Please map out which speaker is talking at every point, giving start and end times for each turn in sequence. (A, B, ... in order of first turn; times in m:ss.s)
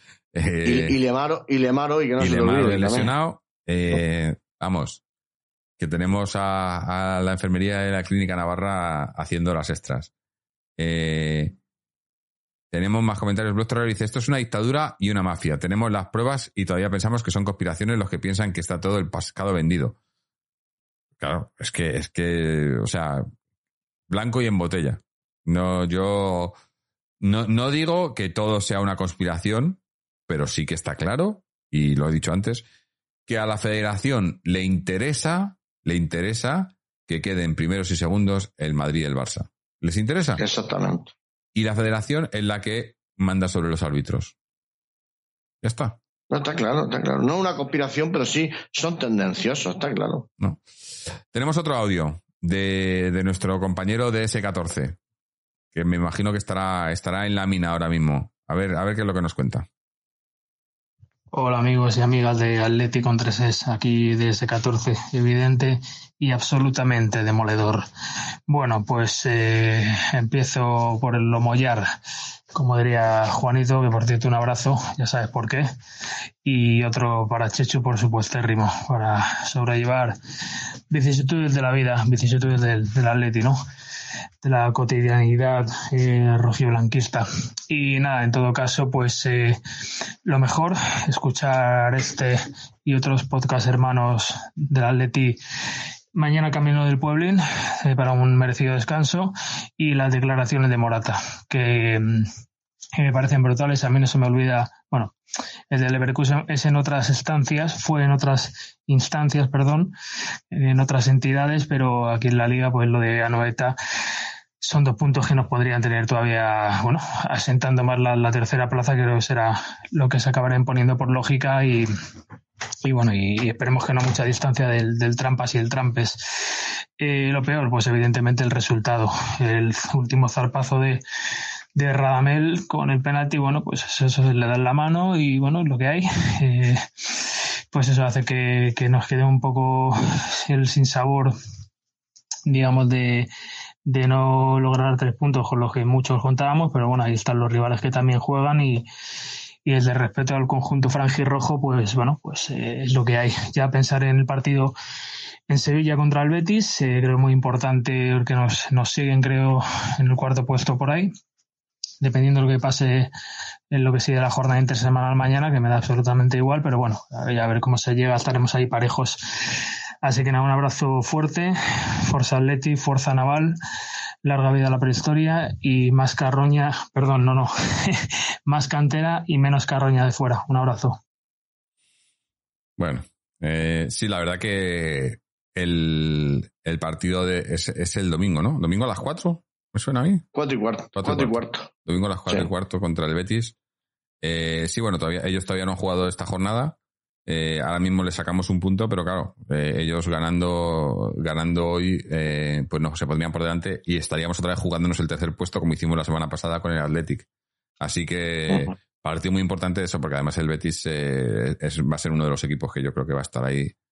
0:00.3-0:01.0 A
0:00.6-0:03.1 B
0:02.2-0:05.0 A
0:05.8-0:10.1 A
0:10.8-0:11.6 A
0:12.7-0:20.0 A
0:21.2-0:23.3 A
0:24.1-0:26.6 A
0:27.2-0:32.6 A
0:33.3-0:40.4 A
0:40.4-0:41.1 B
0:41.5-0:44.3 A
0:45.6-0:46.0 A
0:46.3-0:50.3 B
0:51.3-0:55.0 A
0:55.7-0:59.7 A
1:01.3-1:07.8 C
1:08.5-1:11.8 C
1:12.5-1:15.7 C
1:16.4-1:20.2 C
1:20.9-1:23.6 C
1:24.4-1:29.6 C
1:30.2-1:35.4 C
1:36.2-1:42.3 C
1:43.0-1:45.1 C
1:45.7-1:49.9 C
1:50.5-1:53.8 C
1:54.6-2:01.9 C
2:02.8-2:11.0 C
2:11.7-2:21.3 C
2:22.5-2:23.3 C
2:23.9-2:28.9 C
2:29.6-2:34.7 C
2:35.5-2:41.1 C
2:42.0-2:43.1 C
2:43.7-2:51.5 C
2:52.1-2:53.5 C
2:54.2-3:01.0 C
3:02.8-3:10.2 A
3:10.3-3:11.7 B
3:11.0-3:13.5 A
3:14.2-3:27.3 A
3:27.8-3:33.7 A